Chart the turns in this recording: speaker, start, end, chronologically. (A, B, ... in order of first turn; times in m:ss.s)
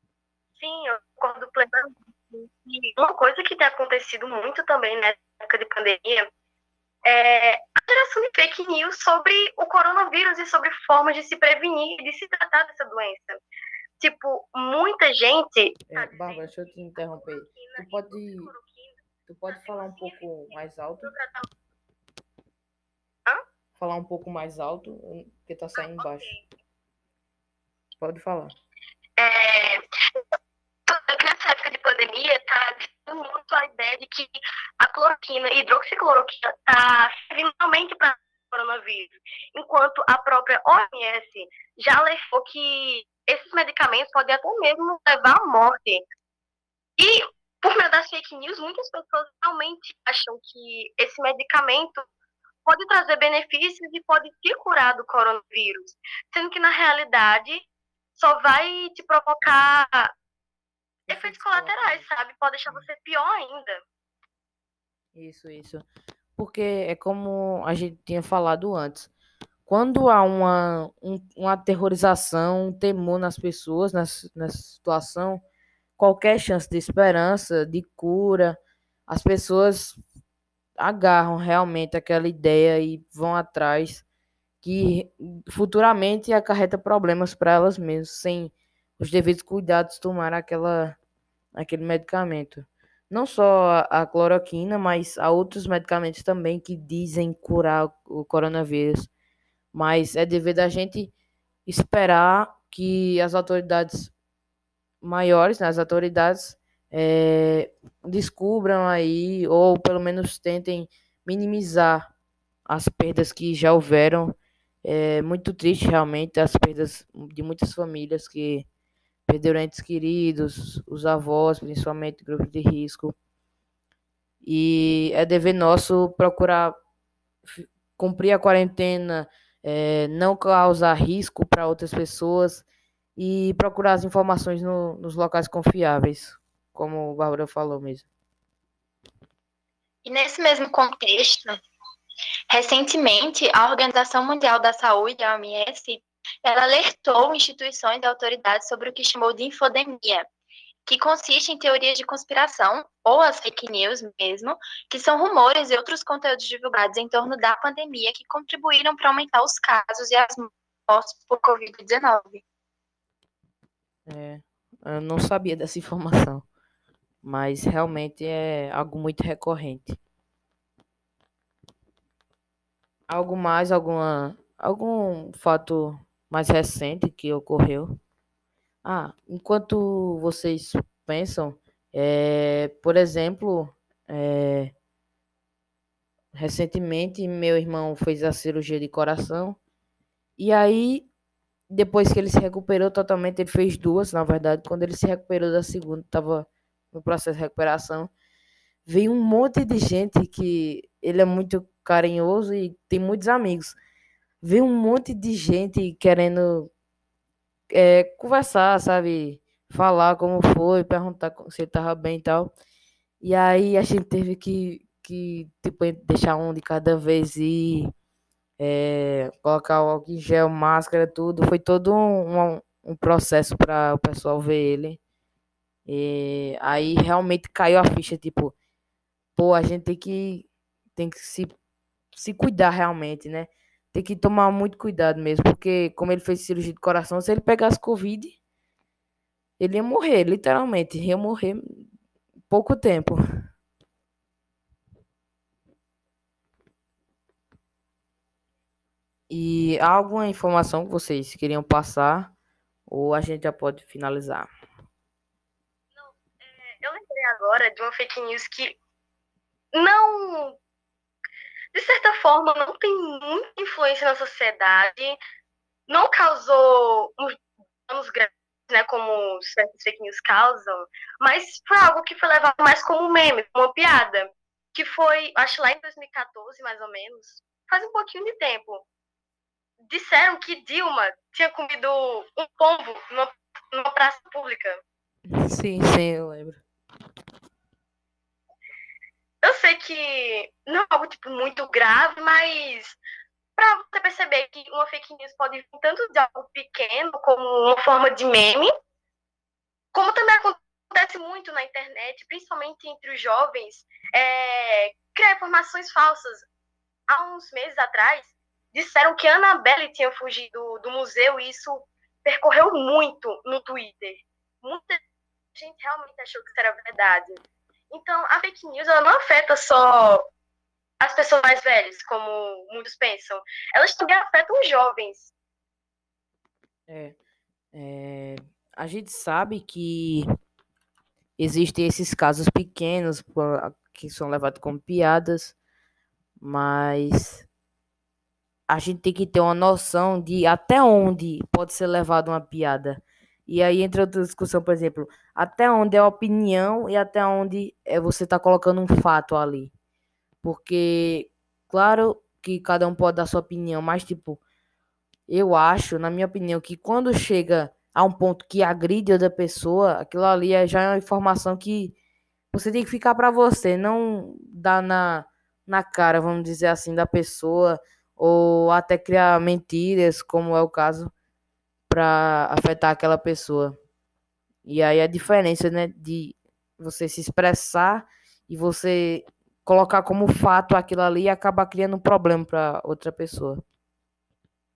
0:00.6-0:06.3 A
0:07.0-0:13.4 A
0:14.0-0:19.0 A
0:15.9-0:18.5 B
0:19.3-0:21.1 B
0:19.5-0:21.5 A
0:23.8-0:26.3 B
0:25.8-0:26.5 A
0:28.0-0:28.6 B
0:29.2-0:29.8 A
0:30.9-0:46.0 A
0:47.0-0:52.1 A
0:52.7-1:00.1 A
1:01.1-1:03.8 A
1:01.1-1:02.1 B
1:05.2-1:05.8 B
1:06.4-1:09.1 B
1:09.7-1:15.4 B
1:16.0-1:20.0 B
1:20.8-1:24.0 B
1:24.6-1:31.0 B
1:31.6-1:39.1 B
1:39.7-1:41.1 B
1:41.7-1:44.1 B
1:45.0-1:52.1 B
1:52.7-1:58.7 B
1:59.3-2:03.2 B
2:04.4-2:06.8 B
2:07.4-2:12.6 B
2:13.2-2:18.1 B
2:20.0-2:21.6 C
2:22.5-2:30.3 C
2:30.9-2:42.4 C
2:44.1-2:46.5 B
2:47.2-2:50.0 B
2:53.1-2:58.0 B
2:58.8-3:04.7 B
3:06.3-3:09.6 B
3:10.4-3:11.1 B
3:11.7-3:18.1 B
3:18.9-3:23.8 B
3:24.4-3:26.7 B
3:27.7-3:32.5 B
3:33.2-3:37.9 B
3:38.6-3:45.0 B
3:45.9-3:48.5 B
3:49.4-3:51.5 B
3:52.1-3:58.4 B
3:59.6-4:01.8 B
4:02.5-4:03.2 B
4:09.3-4:12.3 B
4:12.9-4:14.5 B
4:16.0-4:18.8 A
4:19.7-4:20.6 A
4:21.7-4:25.2 A
4:25.9-4:38.9 A
4:39.9-4:44.8 A
4:45.3-4:46.6 B
4:49.4-4:53.0 A
4:53.6-4:58.7 A
4:59.9-5:06.5 A
5:07.1-5:15.0 A
5:15.6-5:20.3 A
5:21.0-5:25.3 A
5:26.9-5:27.2 B
5:27.7-5:30.3 B
5:31.4-5:35.6 B
5:36.4-5:37.5 B
5:38.7-5:49.7 B
5:50.4-5:54.4 B
5:55.3-6:02.0 B
6:02.5-6:11.1 B
6:11.9-6:13.8 B
6:14.6-6:23.6 B